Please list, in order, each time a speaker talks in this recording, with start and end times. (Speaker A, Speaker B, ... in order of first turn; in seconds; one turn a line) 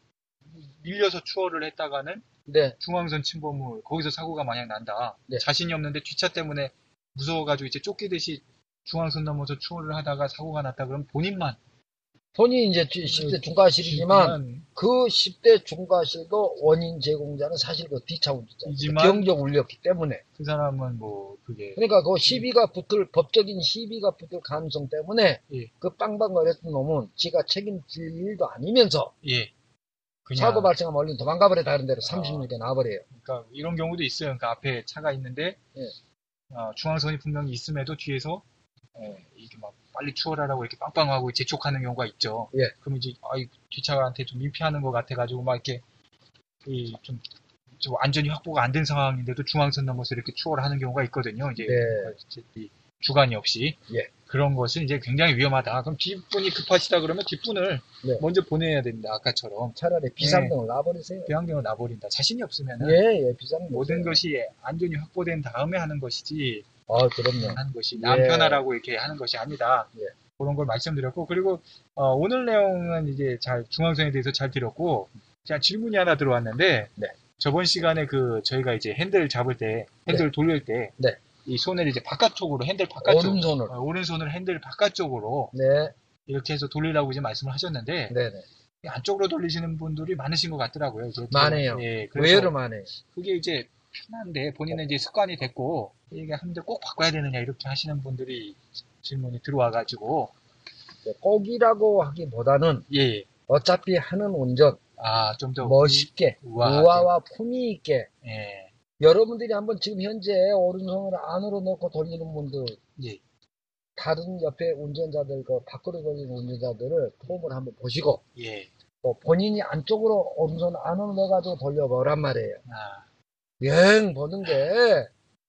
Speaker A: 0.5-2.2
Speaker B: 2.5-2.8
Speaker A: 2.8-11.6
Speaker B: 12.3-20.2
Speaker A: 13.0-14.7
Speaker A: 18.6-19.4
Speaker A: 20.4-22.5
Speaker B: 21.8-29.1
Speaker A: 29.2-29.5
Speaker A: 30.2-30.7
Speaker B: 30.3-33.0
Speaker A: 32.0-32.5
Speaker A: 33.1-35.6
Speaker A: 36.5-38.4
Speaker A: 39.0-45.8
Speaker A: 46.6-47.2
Speaker A: 47.8-60.5
Speaker B: 51.6-52.1
Speaker B: 59.7-61.3
Speaker A: 61.2-63.0
Speaker B: 62.8-64.2
Speaker A: 63.7-66.7
Speaker B: 66.9-68.6
Speaker A: 67.4-85.5
Speaker B: 83.0-83.7
Speaker B: 85.5-85.9
Speaker A: 86.3-88.1
Speaker B: 88.1-88.4
Speaker A: 88.8-92.5
Speaker B: 91.3-92.9
Speaker A: 93.0-100.3
Speaker B: 101.0-102.9
Speaker A: 102.9-103.3
Speaker B: 103.5-104.8
Speaker A: 105.0-107.1
Speaker B: 105.6-108.1
Speaker A: 108.2-108.7
Speaker B: 109.0-112.8
Speaker B: 114.0-118.2
Speaker A: 118.3-118.7
Speaker B: 119.0-122.6
Speaker A: 122.7-123.0
Speaker B: 123.6-125.1